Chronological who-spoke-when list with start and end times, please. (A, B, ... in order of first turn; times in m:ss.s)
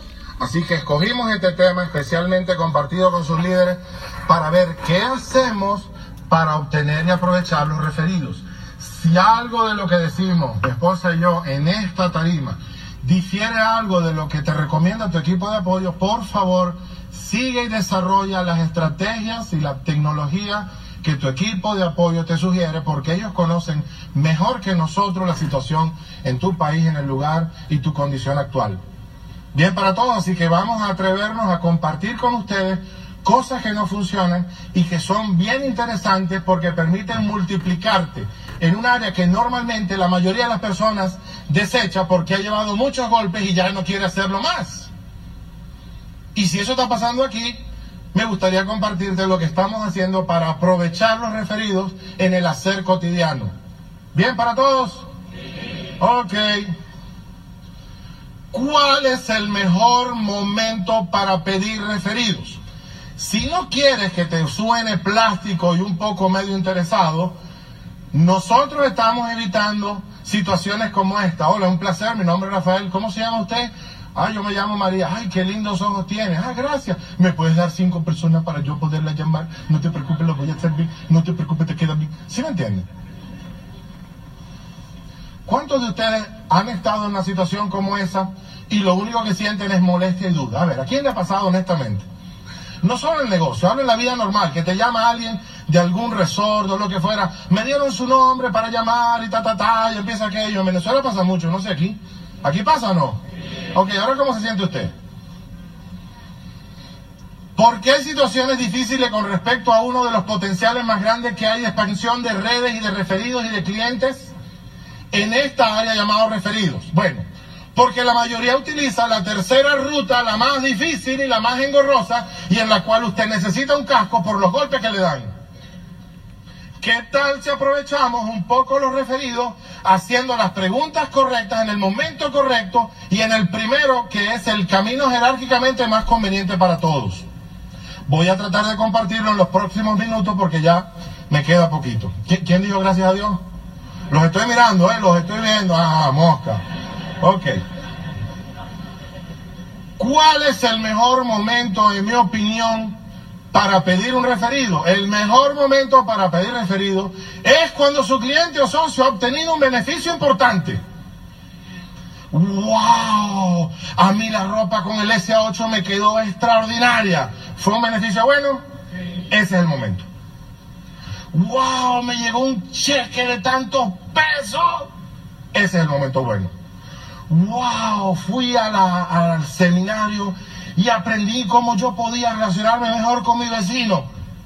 0:00.4-0:28.8 A
0:29.5-0:44.9 A
0:46.4-0:47.6 A
0:48.1-0:53.5 A
0:54.1-0:55.0 A
0:56.0-0:56.7 A
0:58.5-1:02.6 A
1:03.2-1:07.4 A
1:08.1-1:22.9 A
1:25.5-1:32.0 A
1:32.8-1:43.2 A
1:43.7-1:44.9 A
1:47.6-1:54.3 A
1:55.1-2:05.3 A
2:06.8-2:17.2 A
2:18.1-2:23.4 A
2:24.1-2:26.6 A
2:27.2-2:27.6 A
2:30.0-2:33.0 A
2:33.5-2:40.8 A
2:42.3-2:48.6 A
2:49.3-2:50.1 A
2:51.3-2:54.9 A
2:55.5-2:56.5 A
2:57.3-3:04.1 A